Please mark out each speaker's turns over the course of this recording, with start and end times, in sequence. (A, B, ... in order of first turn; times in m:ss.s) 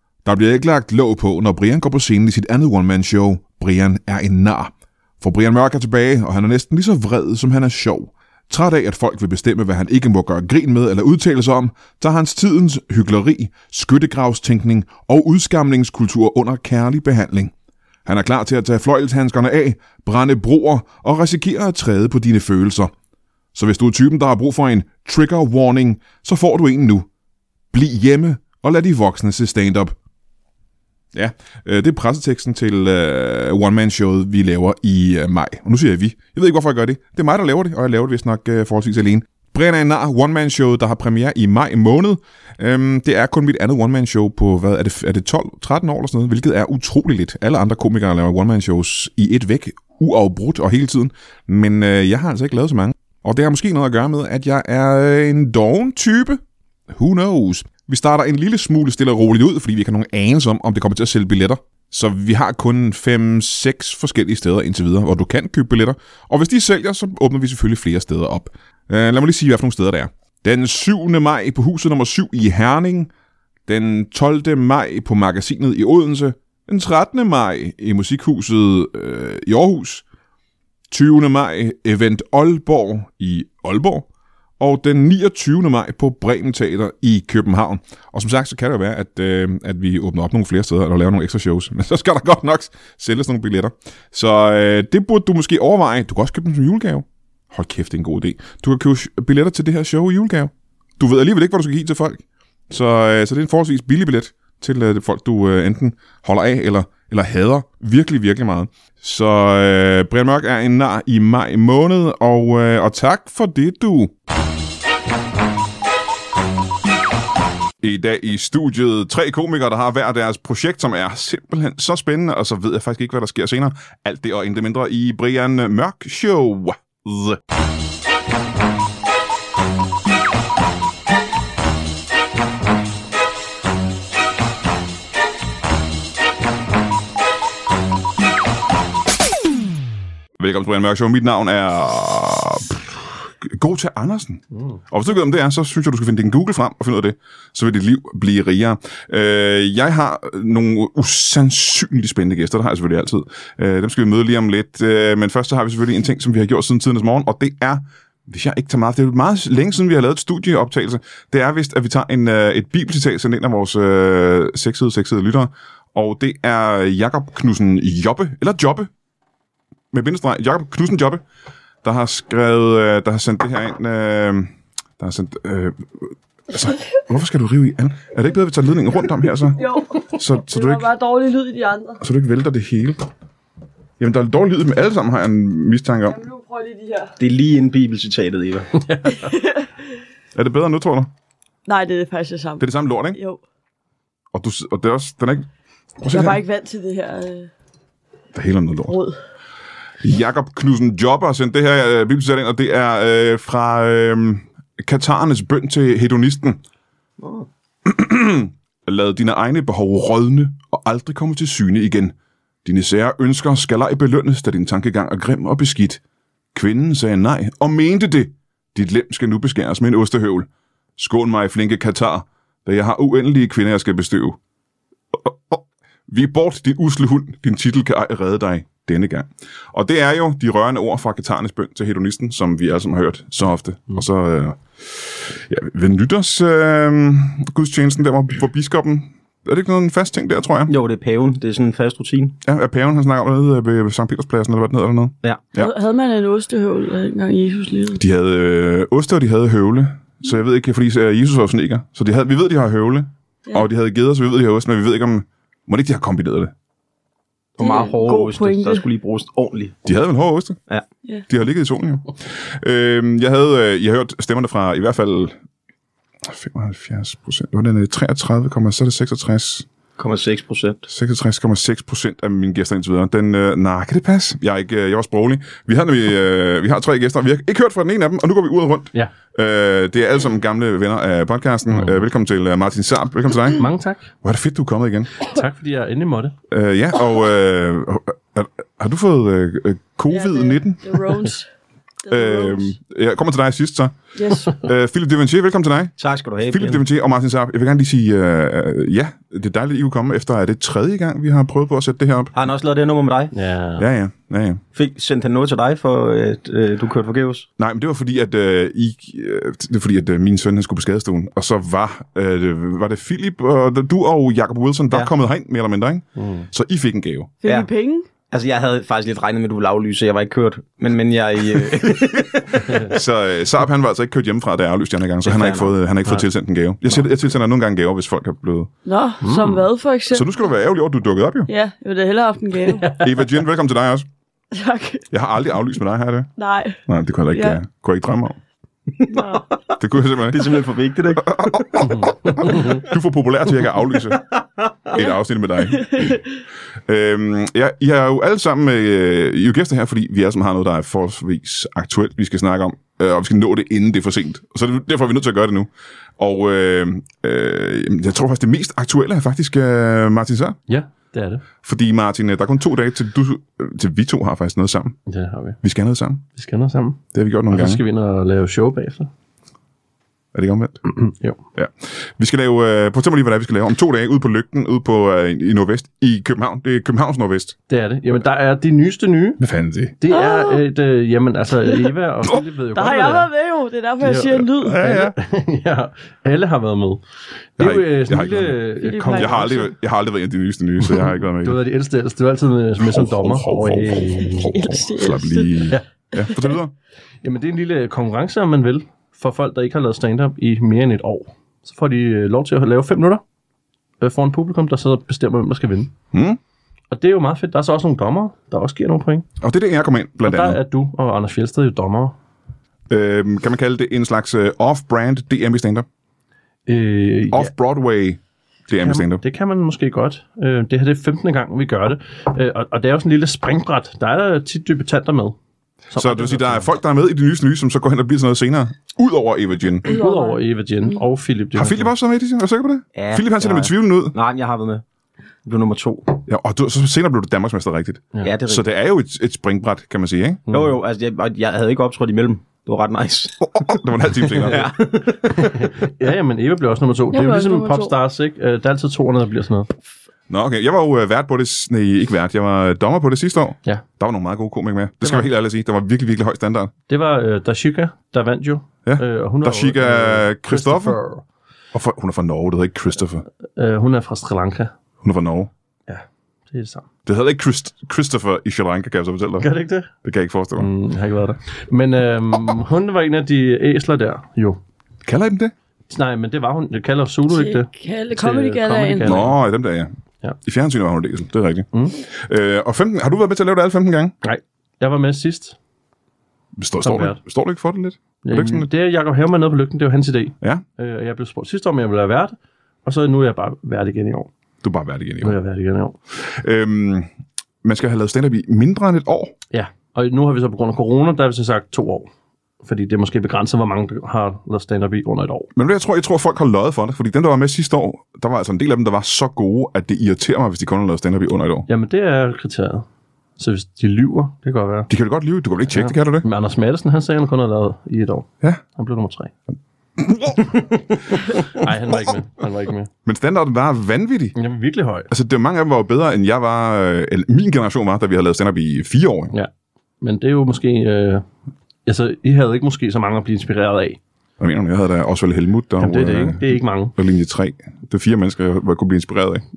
0:00.2-0:17.5 A
0:18.0-0:22.9 A
0:23.5-0:27.1 A
0:27.7-0:29.9 A
0:31.1-1:13.1 A
1:13.7-1:20.0 A
1:20.9-1:24.1 A
1:24.6-1:54.1 A
1:57.8-2:07.4 A
2:20.4-2:48.9 A
2:49.9-2:51.2 A
2:51.8-3:00.9 A
2:59.5-3:02.0 B
3:02.0-3:03.1 A
3:04.0-3:06.2 A
3:06.1-3:07.1 B
3:07.2-3:08.7 C
3:08.8-3:09.3 D
3:09.1-3:09.7 B
3:10.3-3:11.1 A
3:11.6-3:13.4 B
3:12.6-3:13.2 A
3:14.3-3:15.5 A
3:16.0-3:16.4 A
3:16.1-3:17.5 B
3:18.3-3:19.0 A
3:18.9-3:19.2 B
3:20.0-3:26.6 A
3:27.2-3:27.5 C
3:27.8-3:32.1 A
3:32.6-3:36.0 A
3:36.5-3:44.4 A
3:45.2-4:00.7 A
4:00.7-4:02.4 C
4:02.4-4:05.7 A
4:05.6-4:08.0 B
4:08.0-4:16.5 A
4:17.6-4:19.8 C
4:17.6-4:18.8 B
4:19.8-4:20.6 A
4:21.3-4:25.4 A
4:26.2-4:29.7 A
4:30.0-4:30.9 C
4:30.9-4:43.6 A
4:43.6-4:44.1 D
4:44.2-4:45.2 A
4:45.2-4:46.4 D
4:46.5-4:51.2 A
4:50.1-4:51.5 B
4:52.0-4:52.7 B
4:52.1-4:55.9 A
4:54.2-4:54.6 B
4:56.0-4:56.8 C
4:56.4-5:02.3 A
5:02.3-5:03.3 C
5:03.3-5:03.8 D
5:03.8-5:04.6 A
5:04.7-5:07.5 C
5:07.6-5:17.3 A
5:16.2-5:16.5 D
5:17.4-5:18.1 B
5:18.3-5:23.0 C
5:22.5-5:28.7 A
5:25.2-5:25.8 C
5:28.8-5:30.3 B
5:29.2-5:29.7 D
5:30.1-5:31.5 A
5:31.5-5:32.9 B
5:32.6-5:33.3 D
5:33.0-5:34.1 A
5:34.5-5:35.0 B
5:35.1-5:36.3 A
5:36.4-5:36.8 B
5:36.9-5:38.4 A
5:37.3-5:37.6 B
5:39.0-5:39.4 C
5:39.1-5:39.5 B
5:39.8-5:40.6 A
5:40.3-5:42.7 C
5:41.2-5:44.3 A
5:41.9-5:42.7 D
5:44.3-5:45.0 C
5:44.9-5:46.2 A
5:45.7-5:46.2 B
5:46.9-6:00.6 A
6:00.7-6:01.4 D
6:01.6-6:05.0 A
6:05.1-6:05.6 D
6:05.6-6:06.2 A
6:06.3-6:09.1 D
6:07.1-6:07.8 A
6:10.3-6:10.9 A
6:11.0-6:11.4 D
6:11.5-6:17.6 A
6:17.7-6:19.4 D
6:19.4-6:19.9 A
6:20.0-6:23.3 D
6:20.1-6:20.6 B
6:22.7-6:24.9 B
6:24.0-6:27.0 D
6:24.6-6:25.1 A
6:27.6-6:29.5 D
6:27.6-6:28.6 A
6:28.8-6:29.7 B
6:29.1-6:31.6 A
6:30.8-6:34.5 D
6:32.8-6:36.7 A
6:34.2-6:35.7 B
6:37.2-6:43.2 D
6:44.0-6:45.9 D
6:46.1-6:46.4 A
6:46.9-6:49.2 D
6:49.4-6:50.6 A
6:50.2-6:52.1 D
6:52.9-6:55.9 A
6:56.7-6:57.5 D
6:57.3-6:59.2 A
6:58.8-7:05.4 D
7:05.9-7:06.7 D
7:05.9-7:09.9 A
7:09.8-7:11.0 B
7:09.8-7:11.9 D
7:11.5-7:14.1 A
7:12.9-7:14.8 C
7:15.4-7:16.2 C
7:16.2-7:20.4 A
7:18.2-7:18.6 C
7:20.5-7:23.8 C
7:23.4-7:24.7 A
7:24.3-7:25.7 C
7:25.3-7:29.7 D
7:27.1-7:28.0 B
7:30.3-7:36.7 A
7:35.0-7:35.3 D
7:36.9-7:41.2 D
7:38.8-7:41.0 A
7:41.7-7:43.2 A
7:43.6-7:44.7 D
7:45.0-7:45.5 A
7:45.9-7:46.8 D
7:47.0-7:49.5 A
7:49.4-7:49.9 D
7:50.0-7:50.7 A
7:50.6-7:54.6 D
7:55.0-7:55.5 A
7:55.9-7:59.4 D
7:57.3-7:59.1 B
7:59.0-7:59.9 A
8:00.4-8:04.1 A
8:04.2-8:05.6 D
8:06.6-8:08.7 A
8:06.8-8:07.2 D
8:08.2-8:14.3 D
8:14.6-8:15.4 A
8:15.2-8:16.0 D
8:16.1-8:17.1 A
8:17.6-8:19.3 A
8:19.5-8:22.1 D
8:22.6-8:25.5 D
8:25.5-8:31.7 A
8:31.7-8:32.8 D
8:33.4-8:34.9 D
8:34.9-8:36.2 A
8:35.7-8:39.3 D
8:39.5-8:40.7 A
8:41.2-8:42.9 D
8:43.0-8:44.3 A
8:44.4-8:45.1 D
8:45.1-8:49.3 A
8:50.0-8:51.2 D
8:51.8-8:54.0 D
8:54.4-8:59.4 A
8:55.8-8:56.9 D